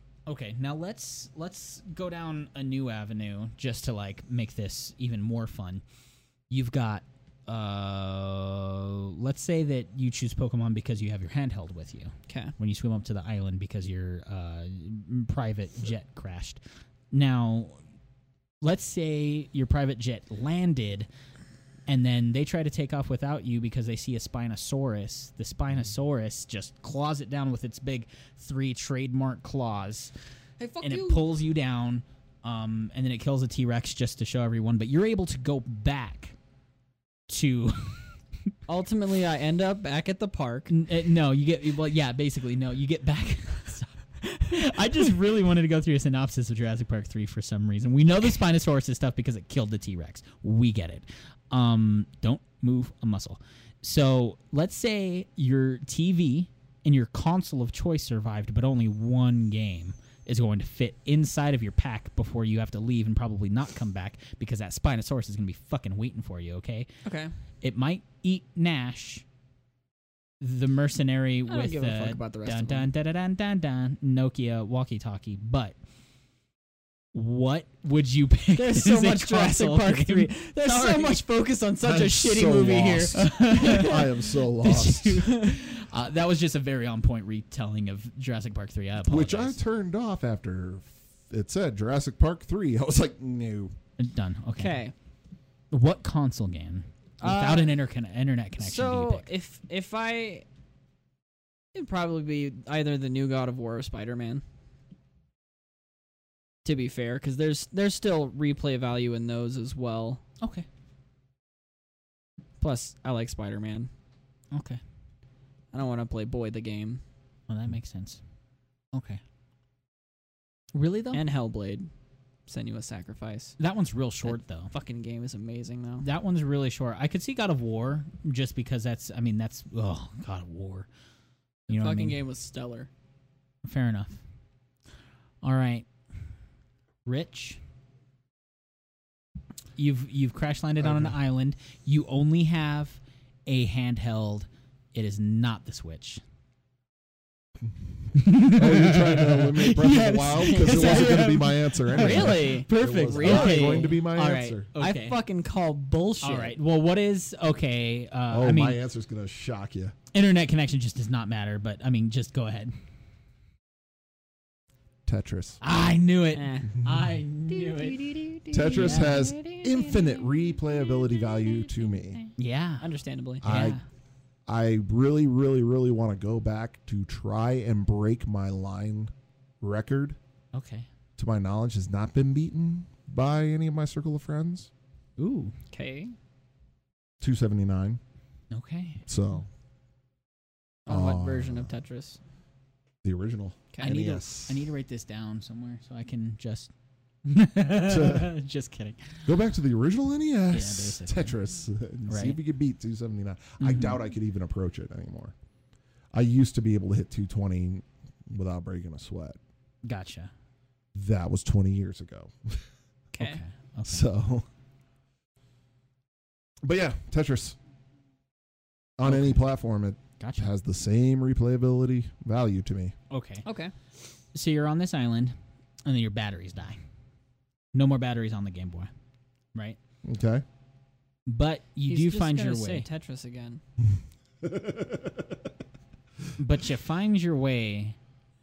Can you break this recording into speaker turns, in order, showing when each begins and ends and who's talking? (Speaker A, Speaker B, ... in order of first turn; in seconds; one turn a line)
Speaker A: 0.3-5.8
Speaker A: 6.5-16.6
Speaker B: 12.3-12.6
Speaker A: 17.1-17.8
Speaker A: 18.6-21.1
Speaker A: 21.9-30.1
Speaker B: 30.6-31.2
Speaker A: 30.8-36.4
Speaker A: 37.3-38.1
Speaker B: 38.7-40.7
Speaker A: 40.7-66.9
Speaker B: 67.0-67.3
Speaker A: 67.6-69.2
Speaker A: 70.4-75.8
Speaker B: 71.5-72.9
Speaker A: 77.1-81.2
Speaker B: 78.5-84.1
Speaker C: 81.8-85.2
Speaker A: 83.0-89.6
Speaker B: 85.2-85.6
Speaker C: 89.1-93.7
Speaker A: 94.0-94.8
Speaker B: 94.6-94.9
Speaker A: 95.7-99.3
Speaker B: 97.2-97.8
Speaker B: 98.6-100.5
Speaker B: 101.7-104.4
Speaker B: 106.7-110.2
Speaker A: 110.4-110.7
Speaker B: 112.6-113.9
Speaker A: 114.5-114.8
Speaker B: 115.7-117.0
Speaker A: 117.5-118.2
Speaker A: 118.9-119.2
Speaker A: 120.7-121.2
Speaker B: 121.1-121.9
Speaker B: 122.5-123.6
Speaker A: 123.6-124.7
Speaker B: 124.2-126.1
Speaker A: 126.0-130.9
Speaker A: 131.7-132.2
Speaker B: 131.7-132.9
Speaker A: 133.6-134.2
Speaker A: 135.4-135.9
Speaker A: 137.1-137.6
Speaker A: 139.8-146.2
Speaker C: 140.8-141.1
Speaker A: 148.2-155.2
Speaker C: 148.5-154.7
Speaker B: 150.2-154.0
Speaker B: 154.8-156.6
Speaker A: 156.2-158.8
Speaker C: 158.3-159.9
Speaker A: 160.1-162.7
Speaker C: 165.1-165.6
Speaker A: 165.6-169.6
Speaker B: 166.3-166.8
Speaker B: 167.6-169.6
Speaker C: 168.5-172.2
Speaker A: 172.4-172.9
Speaker B: 172.8-173.5
Speaker C: 173.4-173.8
Speaker A: 173.4-173.8
Speaker C: 174.5-180.2
Speaker A: 180.5-180.9
Speaker C: 181.2-184.7
Speaker A: 185.2-185.5
Speaker B: 185.7-186.2
Speaker C: 187.2-188.0
Speaker A: 188.5-189.1
Speaker C: 189.1-189.5
Speaker B: 190.9-192.2
Speaker C: 190.9-191.7
Speaker C: 193.0-194.7
Speaker A: 193.8-196.7
Speaker A: 197.2-199.3
Speaker C: 197.8-198.3
Speaker C: 199.2-205.3
Speaker A: 200.5-201.3
Speaker A: 202.1-202.4
Speaker A: 203.6-204.0
Speaker C: 206.1-209.4
Speaker A: 209.8-210.3
Speaker C: 210.9-212.6
Speaker B: 213.2-213.4
Speaker A: 213.2-214.1
Speaker C: 213.9-214.5
Speaker C: 216.6-217.6
Speaker C: 219.0-222.9
Speaker A: 219.1-219.4
Speaker A: 220.2-220.5
Speaker A: 223.1-223.4
Speaker B: 223.4-223.7
Speaker A: 224.3-226.8
Speaker A: 227.7-228.9
Speaker C: 230.0-230.4
Speaker A: 231.3-232.9
Speaker B: 231.9-233.6
Speaker C: 234.4-235.4
Speaker A: 236.4-238.0